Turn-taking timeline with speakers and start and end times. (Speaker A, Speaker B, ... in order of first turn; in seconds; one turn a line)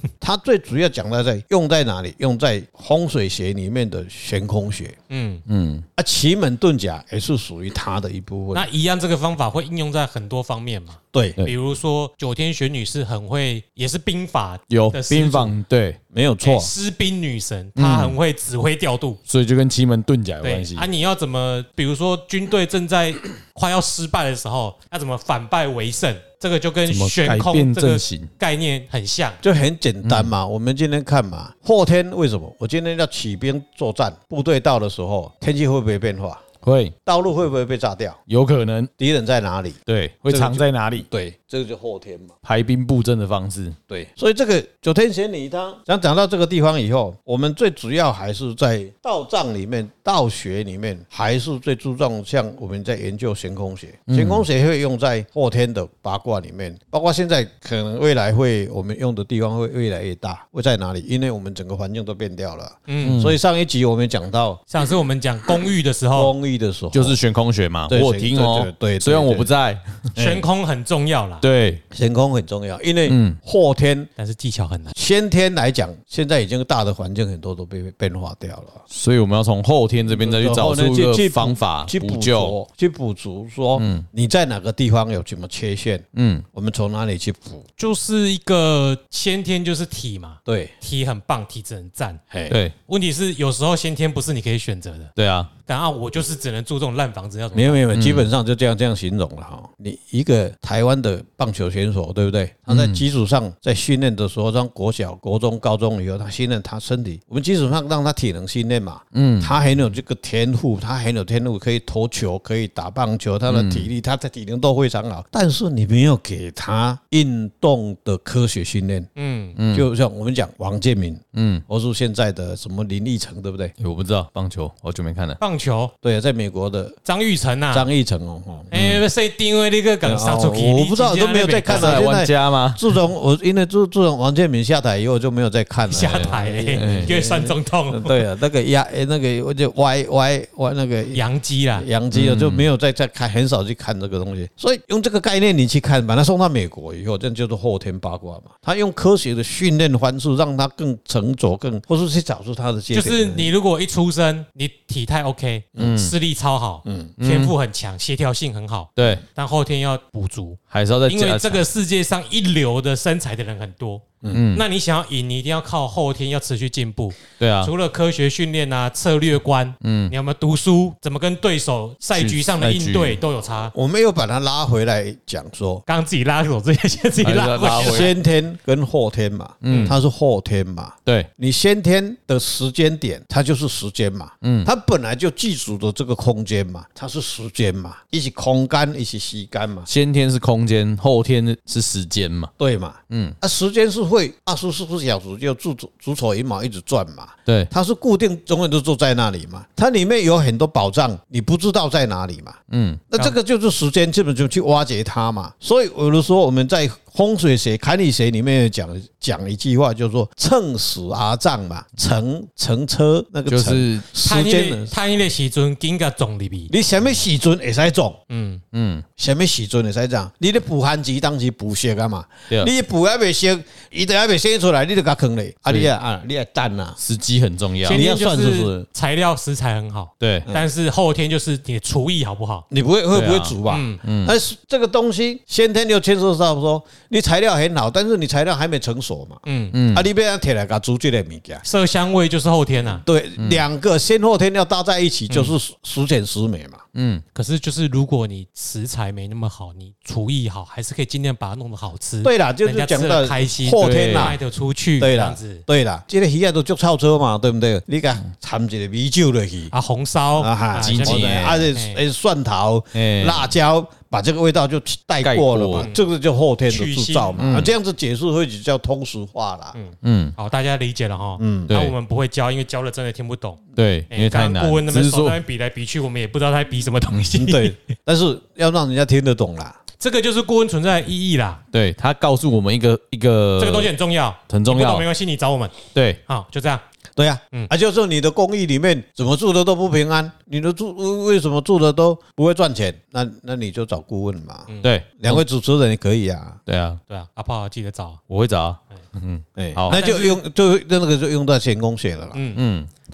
Speaker A: 0.2-5.0
Speaker B: 5.1-5.4
Speaker C: 5.5-5.8
Speaker A: 6.0-8.7
Speaker B: 8.5-15.6
Speaker A: 11.1-11.4
Speaker C: 14.7-16.0
Speaker A: 16.1-16.7
Speaker B: 16.4-19.2
Speaker C: 17.8-18.2
Speaker C: 19.3-20.9
Speaker B: 20.4-29.4
Speaker C: 26.9-28.3
Speaker A: 29.4-36.4
Speaker C: 30.0-30.3
Speaker C: 36.6-36.9
Speaker A: 37.0-38.2
Speaker C: 38.3-38.9
Speaker A: 39.0-42.3
Speaker C: 39.9-41.1
Speaker C: 42.4-43.8
Speaker A: 43.9-64.6
Speaker C: 54.1-54.4
Speaker B: 62.9-63.2
Speaker C: 63.0-63.4
Speaker B: 64.7-66.3
Speaker A: 66.1-67.2
Speaker C: 66.9-70.1
Speaker A: 67.9-69.5
Speaker A: 70.1-70.4
Speaker B: 70.2-71.4
Speaker C: 71.4-71.8
Speaker A: 71.9-74.1
Speaker C: 73.1-73.4
Speaker B: 74.2-74.9
Speaker A: 74.9-78.8
Speaker C: 78.9-82.5
Speaker A: 80.0-87.7
Speaker C: 83.8-84.0
Speaker C: 86.1-86.4
Speaker B: 87.8-92.2
Speaker A: 90.5-90.7
Speaker A: 92.3-92.6
Speaker C: 92.5-92.7
Speaker B: 92.9-95.1
Speaker C: 95.2-95.5
Speaker B: 95.7-97.8
Speaker A: 97.5-119.1
Speaker C: 97.9-98.3
Speaker C: 102.7-103.0
Speaker C: 109.1-109.5
Speaker C: 113.5-113.9
Speaker B: 119.2-119.6
Speaker C: 119.6-119.9
Speaker A: 119.7-123.7
Speaker C: 121.3-121.6
Speaker C: 123.8-125.4
Speaker B: 125.4-125.9
Speaker A: 126.0-127.0
Speaker B: 127.0-127.9
Speaker A: 127.7-128.7
Speaker B: 128.7-132.0
Speaker C: 128.7-129.0
Speaker A: 130.0-141.2
Speaker C: 131.7-132.8
Speaker B: 135.9-138.1
Speaker C: 136.0-137.1
Speaker B: 141.1-141.9
Speaker A: 141.8-153.5
Speaker C: 142.1-142.6
Speaker B: 152.9-173.7
Speaker C: 155.8-156.1
Speaker A: 156.8-157.1
Speaker C: 157.2-157.5
Speaker C: 159.0-159.2
Speaker C: 160.7-161.6
Speaker C: 164.3-164.6
Speaker C: 167.4-167.7
Speaker C: 169.8-170.1
Speaker C: 172.2-173.2
Speaker A: 173.7-175.8
Speaker B: 175.9-178.1
Speaker C: 177.2-178.1
Speaker A: 177.7-189.9
Speaker C: 179.6-180.0
Speaker B: 179.7-179.9
Speaker C: 184.4-184.7
Speaker C: 189.9-192.5
Speaker A: 192.6-202.6
Speaker C: 193.1-193.3
Speaker C: 202.7-203.1
Speaker A: 203.1-214.9
Speaker C: 213.5-214.1
Speaker B: 214.2-216.7
Speaker A: 216.7-218.2
Speaker B: 218.3-218.6
Speaker C: 218.7-219.0
Speaker A: 219.2-227.0
Speaker C: 227.0-228.0
Speaker B: 227.8-232.7
Speaker A: 227.9-228.9
Speaker C: 230.2-230.5
Speaker A: 232.7-241.6
Speaker C: 233.1-234.3
Speaker B: 233.7-234.0
Speaker B: 239.4-239.8
Speaker C: 239.7-240.1
Speaker B: 241.6-243.0
Speaker A: 242.9-246.8
Speaker C: 243.4-243.6
Speaker C: 246.9-247.2
Speaker B: 247.3-255.6
Speaker A: 252.2-254.4
Speaker C: 253.8-254.4
Speaker A: 255.0-259.7
Speaker B: 259.7-262.0
Speaker A: 260.4-269.8
Speaker C: 260.8-261.6
Speaker C: 262.9-263.5
Speaker C: 265.2-265.9
Speaker B: 265.8-266.1
Speaker B: 266.7-267.4
Speaker C: 267.4-267.7
Speaker B: 269.7-277.8
Speaker C: 270.0-270.3
Speaker A: 271.4-271.7
Speaker C: 271.7-271.9
Speaker C: 273.8-275.4
Speaker A: 277.4-279.8
Speaker B: 280.0-281.6
Speaker C: 281.7-283.9
Speaker B: 283.6-286.8
Speaker C: 284.5-285.1
Speaker C: 285.9-286.2
Speaker A: 287.1-296.6
Speaker C: 294.8-295.4
Speaker C: 296.7-297.0
Speaker B: 297.1-298.2
Speaker C: 298.3-300.0
Speaker A: 299.6-302.4
Speaker B: 299.9-300.4
Speaker B: 302.3-302.6
Speaker C: 302.5-302.9